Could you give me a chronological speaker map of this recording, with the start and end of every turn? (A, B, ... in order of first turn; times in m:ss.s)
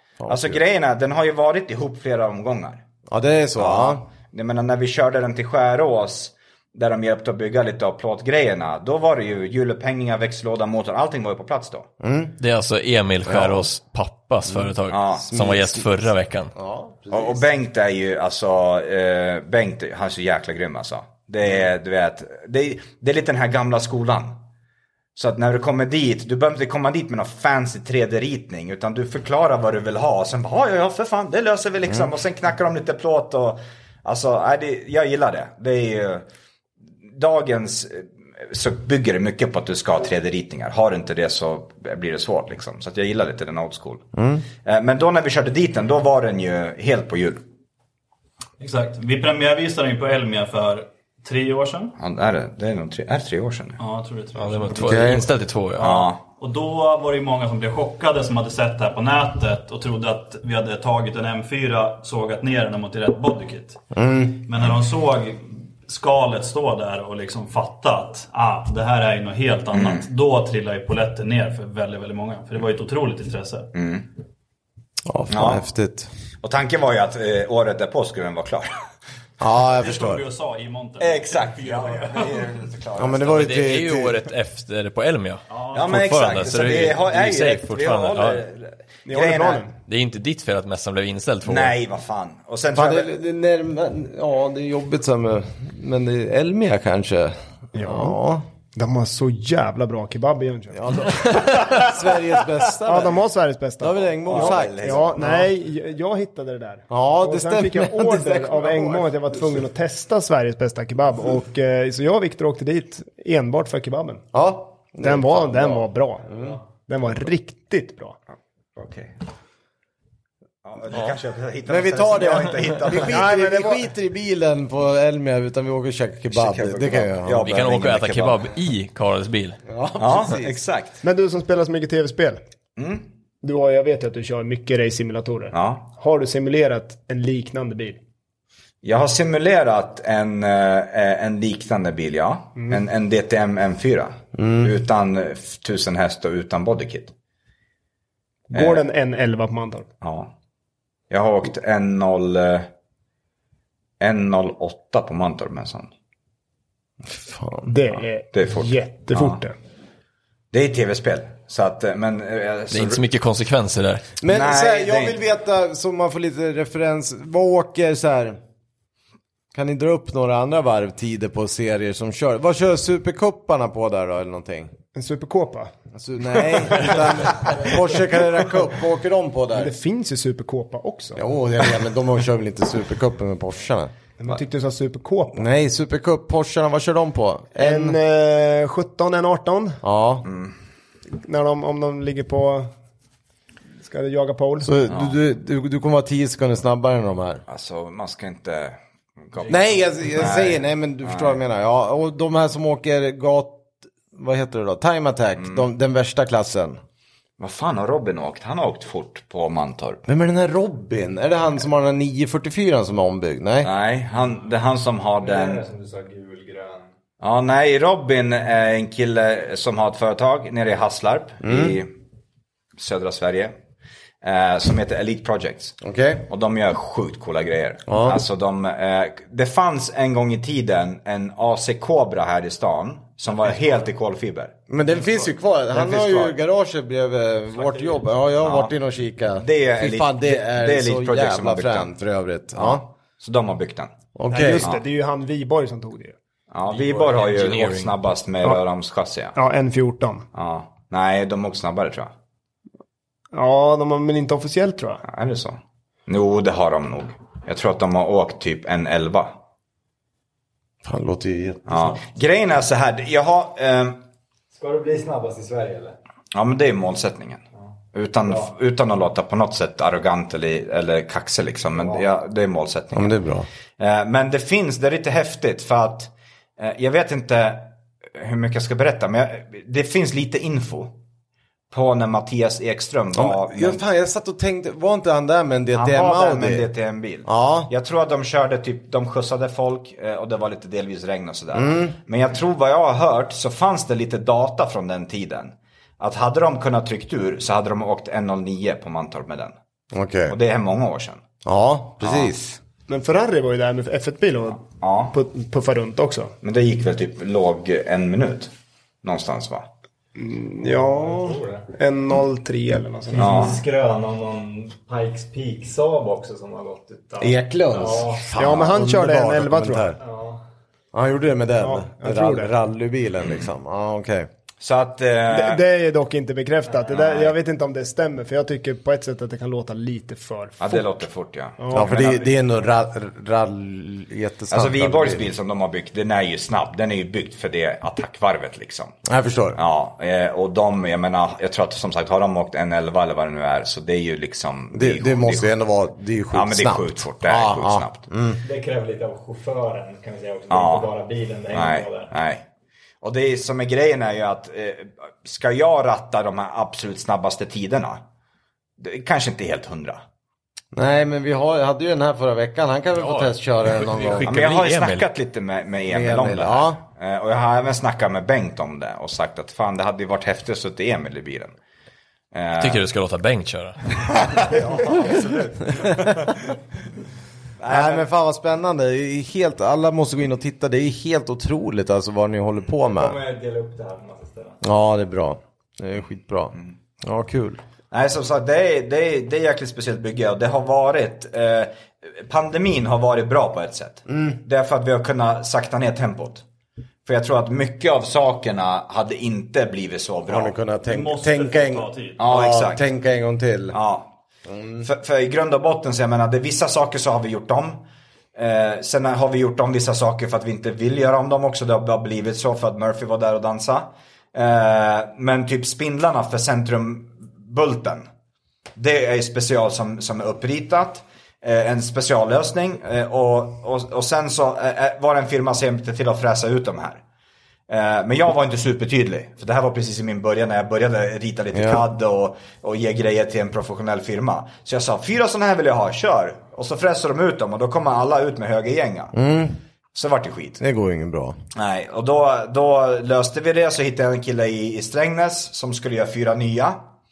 0:00.2-0:00.6 A
0:00.3-0:02.8 B
0:03.1-0:04.0 A
0:03.6-0:11.9 B
0:12.0-0:12.4 A
0:12.4-0:16.5 C
0:13.3-0:13.7 A
0:14.9-0:15.3 B
0:15.3-0:15.9 A
0:16.6-0:17.4 A
0:17.1-0:24.3 B
0:25.2-0:36.3 B
0:37.1-0:44.1 B
0:44.2-0:44.4 A
0:44.6-0:47.4 B
0:48.6-0:52.0 D
0:52.0-0:53.8 B
0:53.8-0:55.2 D
0:54.4-0:56.0 C
0:54.7-0:55.3 A
0:55.8-0:56.2 B
0:55.8-1:03.8 D
1:03.9-1:04.4 A
1:04.4-1:13.7 D
1:09.7-1:10.0 B
1:13.7-1:14.1 B
1:15.1-1:16.1 A
1:15.3-1:15.6 B
1:16.4-1:18.7 B
1:19.4-1:20.2 A
1:19.7-1:22.5 D
1:21.0-1:23.4 B
1:23.0-1:24.2 A
1:23.2-1:28.4 C
1:25.5-1:26.8 D
1:25.7-1:29.7 B
1:29.1-1:29.7 E
1:29.9-1:31.8 C
1:31.4-1:33.1 B
1:32.7-1:38.4 A
1:37.7-1:38.2 E
1:38.8-1:41.8 E
1:40.7-1:43.2 A
1:42.8-1:54.3 E
1:43.8-1:45.5 A
1:44.2-1:45.5 B
1:46.9-1:49.6 A
1:54.3-1:56.6 A
1:55.0-1:56.2 E
1:56.9-1:58.2 E
1:58.8-1:59.2 B
2:00.6-2:03.4 B
2:01.7-2:07.6 A
2:03.0-2:03.8 E
2:06.3-2:08.5 B
2:07.4-2:09.6 C
2:09.7-2:10.6 A
2:10.0-2:11.0 B
2:11.0-2:12.4 E
2:12.8-2:13.1 B
2:13.4-2:18.0 E
2:15.5-2:15.8 B
2:18.8-2:27.1 B
2:24.4-2:24.7 A
2:28.5-2:29.9 E
2:28.5-2:28.8 B
2:30.0-2:30.3 B
2:31.1-2:32.7 B
2:34.0-2:35.9 B
2:37.0-2:38.0 A
2:37.7-2:39.5 E
2:38.3-2:39.4 B
2:40.5-2:43.0 B
2:42.7-2:44.1 C
2:44.2-2:48.4 A
2:44.3-2:45.2 B
2:49.5-2:54.7 A
2:55.0-2:55.7 E
2:56.0-2:59.7 A
2:59.5-3:01.2 E
3:01.2-3:03.9 A
3:04.2-3:05.5 E
3:05.4-3:08.0 A
3:07.6-3:09.8 E
3:09.8-3:10.3 A
3:10.2-3:10.6 B
3:11.2-3:12.7 E
3:13.8-3:14.8 E
3:14.6-3:17.4 A
3:14.9-3:15.2 B
3:17.5-3:21.4 B
3:19.5-3:26.8 A
3:25.4-3:25.7 B
3:27.4-3:30.0 B
3:30.1-3:33.7 A
3:33.6-3:35.6 B
3:35.2-3:36.9 F
3:37.2-3:41.9 B
3:41.4-3:41.8 A
3:42.8-3:43.6 B
3:44.2-3:45.8 B
3:45.8-3:46.3 A
3:46.3-3:54.5 B
3:47.9-3:48.2 A
3:53.5-3:53.8 F
3:54.7-4:02.8 A
3:55.7-3:56.4 B
3:57.5-3:58.0 F
3:58.4-3:58.7 B
3:59.4-4:01.9 B
4:02.5-4:03.9 B
4:04.2-4:04.7 A
4:04.3-4:06.2 E
4:06.5-4:09.4 B
4:06.7-4:08.0 C
4:09.4-4:10.3 E
4:10.3-4:12.1 B
4:13.3-4:15.0 E
4:15.0-4:19.4 B
4:20.8-4:22.0 A
4:21.7-4:24.0 B
4:24.5-4:26.0 F
4:26.3-4:27.4 B
4:27.9-4:33.2 B
4:28.2-4:28.5 F
4:31.7-4:32.0 F
4:32.9-4:33.5 A
4:33.8-4:40.9 B
4:41.7-4:43.8 B
4:43.2-4:46.7 A
4:45.7-4:59.6 B
4:47.3-4:47.7 A
4:51.5-4:52.0 A
4:59.9-5:00.4 A
5:00.3-5:01.2 B
5:01.4-5:02.6 A
5:02.0-5:02.3 B
5:02.9-5:06.3 E
5:04.8-5:05.2 B
5:06.4-5:08.5 B
5:09.0-5:09.7 B
5:10.2-5:13.5 E
5:10.6-5:11.7 F
5:13.1-5:18.3 F
5:13.2-5:13.6 B
5:17.2-5:20.0 A
5:18.4-5:20.0 E
5:20.0-5:20.4 F
5:20.9-5:24.3 A
5:21.6-5:22.5 E
5:24.6-5:25.6 B
5:25.3-5:30.9 E
5:26.9-5:27.4 B
5:30.6-5:32.4 B
5:31.6-5:32.0 E
5:31.7-5:35.3 A
5:34.5-5:39.0 B
5:39.0-5:39.6 A
5:39.6-5:45.5 B
5:44.7-5:48.4 A
5:46.3-5:48.1 B
5:48.4-5:52.1 F
5:50.5-5:50.9 B
5:51.5-5:52.4 B
5:53.0-5:58.0 B
5:58.8-6:00.0 B
6:00.7-6:04.4 A
6:03.0-6:05.1 C
6:04.2-6:11.6 B
6:05.9-6:06.8 A
6:12.3-6:12.8 B
6:12.6-6:14.2 C
6:14.0-6:16.6 B
6:17.6-6:18.1 B
6:17.7-6:23.2 A
6:22.9-6:24.6 F
6:24.6-6:27.6 A
6:27.9-6:36.4 B
6:34.1-6:34.4 A
6:37.0-6:40.6 B
6:40.3-6:43.8 A
6:40.8-6:42.2 D
6:42.2-6:42.9 B
6:43.7-6:44.2 B
6:44.5-6:44.9 A
6:44.8-6:47.8 B
6:48.4-6:58.1 B
6:58.8-7:07.0 B
7:07.7-7:19.2 B
7:11.5-7:11.8 A
7:19.1-7:19.6 A
7:19.9-7:20.6 B
7:20.6-7:21.4 A
7:21.5-7:26.8 B